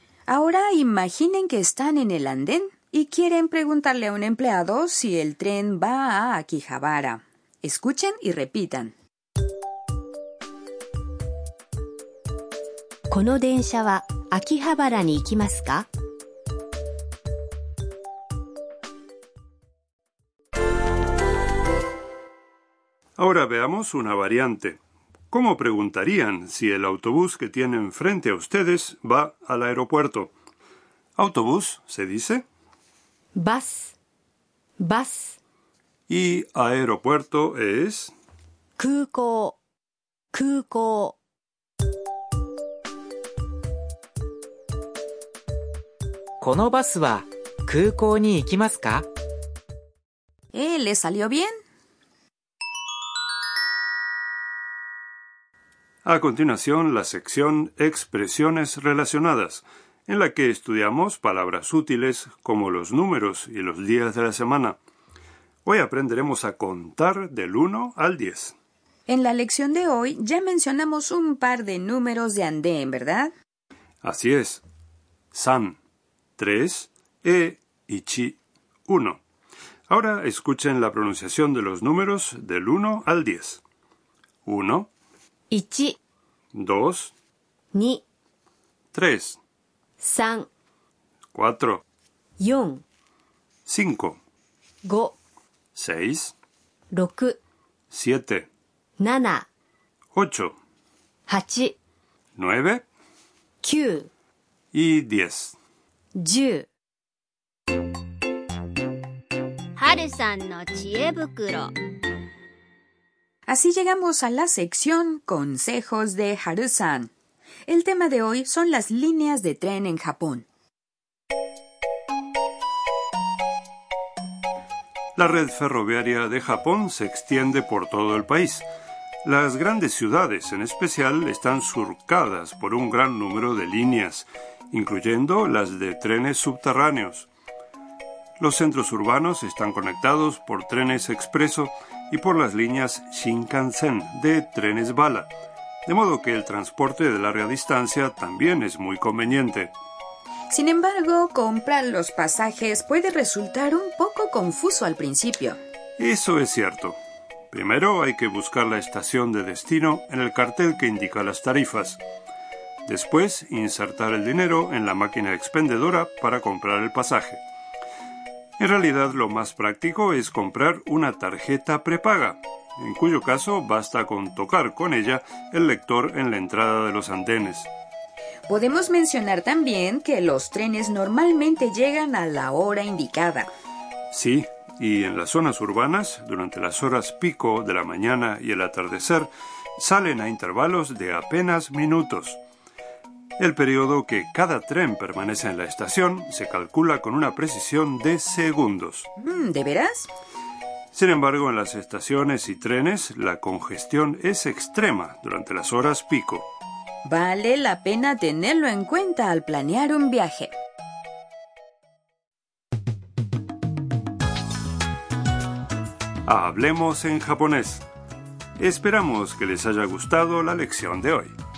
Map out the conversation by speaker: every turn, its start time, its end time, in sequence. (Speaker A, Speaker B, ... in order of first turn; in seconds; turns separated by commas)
Speaker A: 0.3-8.9, Speaker B: 13.1-15.9, Speaker C: 23.2-24.8, Speaker C: 25.3-30.3, Speaker C: 31.2-32.4, Speaker B: 33.3-33.9, Speaker B: 34.8-35.4, Speaker C: 36.1-38.1, Speaker B: 38.8-39.6, Speaker B: 40.3-41.1, Speaker D: 46.4-49.0, Speaker A: 50.5-51.5, Speaker C: 56.0-64.8, Speaker C: 65.6-68.5, Speaker A: 69.1-73.3, Speaker C: 74.0-74.6, Speaker C: 75.3-75.8, Speaker C: 76.4-79.2, Speaker C: 79.9-83.6, Speaker C: 84.5-84.9, Speaker B: 85.5-86.0, Speaker C: 86.5-87.1, Speaker B: 87.7-88.0, Speaker C: 88.9-89.4, Speaker B: 90.0-90.5, Speaker C: 91.3-91.8, Speaker B: 92.4-92.8, Speaker C: 93.7-94.2, Speaker B: 94.8-95.2, Speaker C: 95.7-96.3, Speaker B: 96.9-97.4, Speaker C: 97.9-98.5, Speaker B: 99.0-99.5, Speaker C: 100.1-100.5, Speaker B: 101.3-101.7, Speaker C: 102.4-102.8, Speaker B: 103.6-104.1, Speaker C: 104.7-105.6, Speaker B: 106.1-106.7, Speaker E: 109.8-111.7, Speaker A: 113.5-117.1, Speaker A: 117.7-120.4, Speaker C: 125.2-128.7, Speaker C: 129.2-137.3, Speaker C: 138.4-145.3, Speaker C: 145.8-149.7, Speaker A: 150.5-155.6, Speaker C: 156.0-157.0, Speaker C: 157.5-162.0, Speaker C: 162.8-167.4, Speaker C: 168.6-177.7, Speaker A: 178.5-183.5, Speaker C: 184.1-192.4, Speaker C: 193.4-199.1, Speaker A: 199.2-200.1, Speaker C: 200.9-206.5, Speaker A: 207.0-210.5, Speaker C: 216.2-217.8, Speaker C: 218.6-221.3